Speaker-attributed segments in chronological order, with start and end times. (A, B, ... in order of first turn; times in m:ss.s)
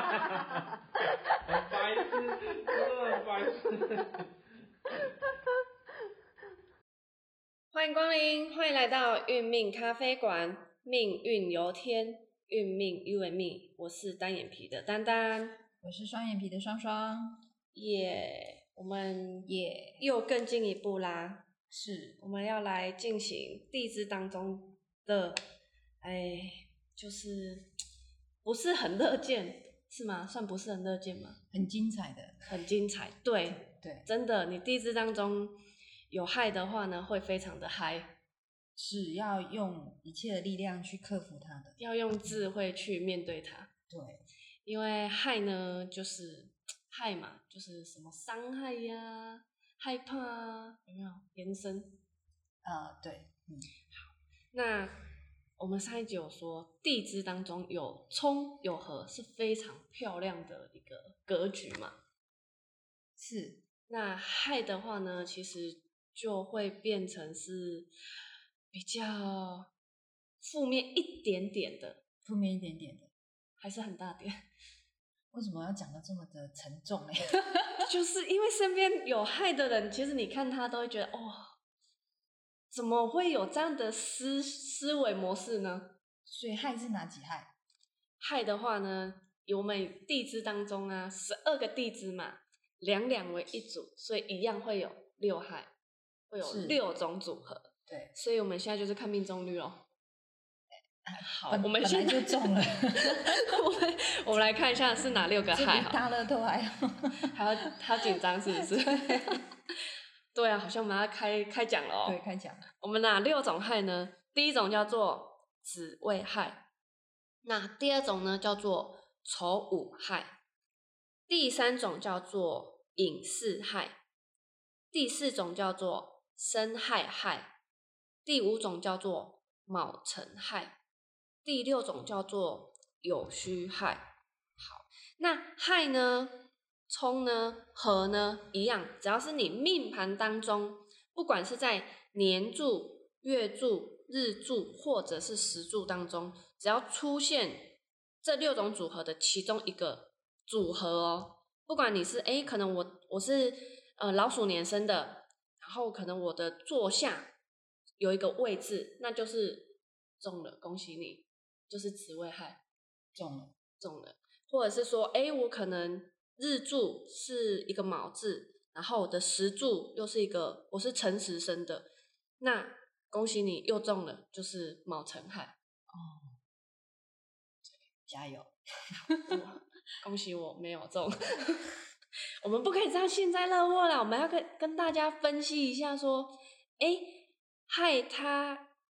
0:01.5-0:04.1 A
0:07.7-0:15.6 B
0:15.8-0:17.4 C
0:17.7-0:21.5 B
0:19.4-0:20.0 C
0:21.7-0:22.2 C
0:22.2-0:25.4 B
0:26.0-0:27.7 B
0:28.4-0:31.4 B
0:31.5-0:32.4 C
0:32.4-0:35.6 B
0:33.5-0:34.1 C
0:36.1-0:38.2 B
0:38.8-0:41.8 C
0:41.8-0:43.7 B
0:43.9-0:44.2 C
0:44.6-0:52.0 B
0:52.6-0:53.7 C
0:53.9-0:54.9 B
0:55.6-1:02.0 B
1:03.2-1:03.6 C
1:03.9-1:07.9 B
1:08.7-1:09.7 B
1:10.4-1:12.0 B
1:12.2-1:13.1 C
1:13.6-1:14.4 B
1:15.3-1:17.9 C
1:17.8-1:21.5 B
1:22.7-1:25.9 B
1:26.2-1:27.5 C
1:28.2-1:35.7 B
1:36.3-1:39.8 B
1:36.4-1:36.8 C
1:41.0-1:43.6 C
1:41.2-1:46.0 B
1:45.5-1:47.3 C
1:47.2-1:52.2 B
1:48.1-1:49.4 C
1:52.0-1:52.6 C
1:52.8-1:56.6 B
1:57.4-2:00.4 B
2:01.3-2:04.0 B
2:04.9-2:07.5 B
2:08.2-2:10.7 B
2:11.4-2:14.0 B
2:14.6-2:37.3 B
2:38.0-2:42.6 B
2:43.1-2:43.5 C
2:43.8-2:51.9 B
2:52.4-2:55.6 B
2:55.9-2:56.4 C
2:58.1-2:59.4 C
2:59.2-3:01.7 B
3:02.4-3:08.7 B